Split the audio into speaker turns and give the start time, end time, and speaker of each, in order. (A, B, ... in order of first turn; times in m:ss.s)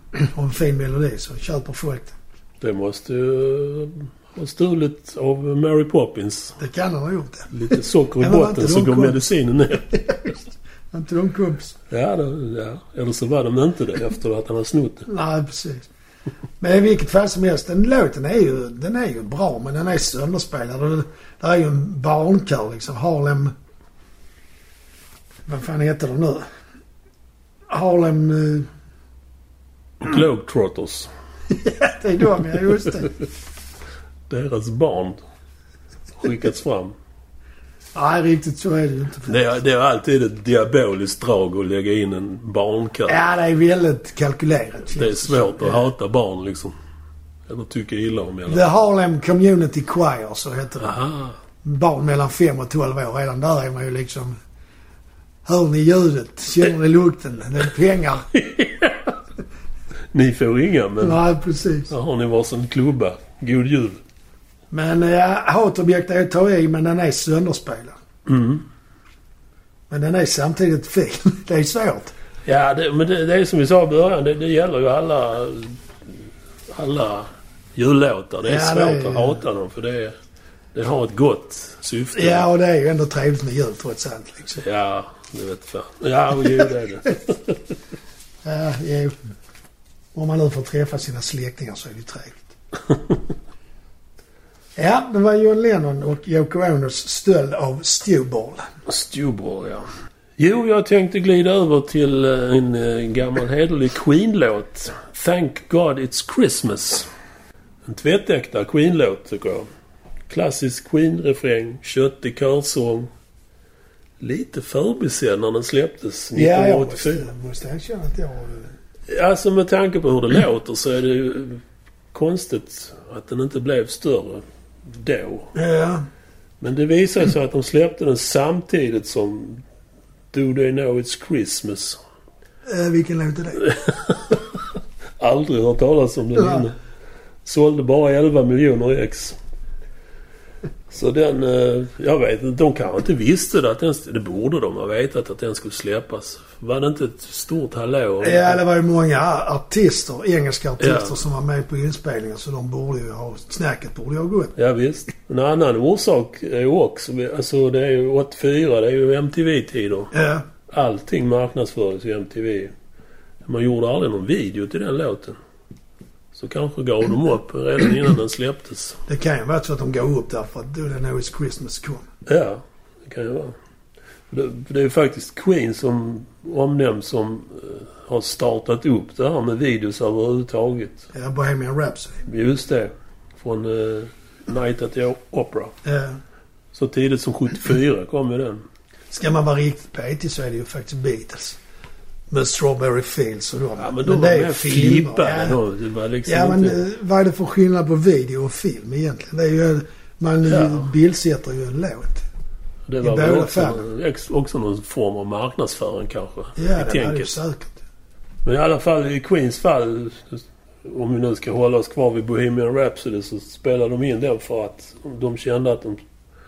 0:00.1-0:02.2 A
0:02.6-0:06.6 B
0:06.6-0:09.2 A
0:07.5-0:10.1 B
0:09.9-0:11.8 A
0:11.9-0:15.1 B
0:15.1-0:15.9 A
0:16.6-0:23.5 A
0:25.5-0:26.5 A
0:27.7-0:28.7 A
0:30.0-0:31.1 B
0:31.5-0:33.2 A
0:34.3-0:35.2 B
0:36.2-0:36.9 B
0:37.9-0:39.4 A
0:39.3-0:43.2 B
0:43.1-0:45.8 A
0:44.9-0:46.7 B
0:47.5-0:48.6 B
0:48.5-0:50.9 A
0:50.8-0:51.4 B
0:51.6-0:54.4 A
0:55.4-0:58.3 A
0:58.3-0:59.2 B
1:00.1-1:01.2 B
1:01.0-1:01.9 A
1:01.9-1:04.0 B
1:04.7-1:08.0 A
1:08.3-1:08.6 B
1:09.9-1:12.1 A
1:12.4-1:15.8 B
1:16.7-1:20.2 B
1:18.4-1:19.4 A
1:20.7-1:22.4 B
1:22.1-1:24.6 A
1:24.6-1:27.6 B
1:28.4-1:29.2 A
1:30.1-1:32.5 A
1:34.8-1:38.6 A
1:38.8-1:47.1 B
1:47.8-1:49.7 B
1:50.3-1:53.1 B
1:54.2-1:57.3 B
1:56.3-1:58.7 A
1:59.1-2:05.5 B
2:05.5-2:06.0 A
2:06.6-2:09.6 B
2:10.3-2:12.0 B
2:12.7-2:13.6 A
2:13.6-2:14.7 B
2:15.2-2:16.8 B
2:16.4-2:16.6 A
2:17.4-2:19.4 B
2:20.9-2:28.6 B
2:28.2-2:34.5 A
2:30.8-2:31.1 B
2:34.6-2:40.1 B
2:40.1-2:40.4 A
2:40.7-2:42.7 B
2:43.4-2:45.4 B
2:46.3-2:49.0 B
2:49.1-2:52.0 A
2:52.2-2:53.6 B
2:54.3-3:01.1 B
3:01.1-3:02.2 A
3:02.2-3:05.8 B
3:05.8-3:06.2 A
3:06.7-3:08.6 B
3:09.1-3:11.6 A
3:12.3-3:15.6 A
3:13.8-3:16.8 B
3:16.2-3:22.2 A
3:20.4-3:20.8 B
3:22.9-3:27.4 B
3:23.0-3:23.8 A
3:26.6-3:27.8 A
3:28.4-3:36.0 B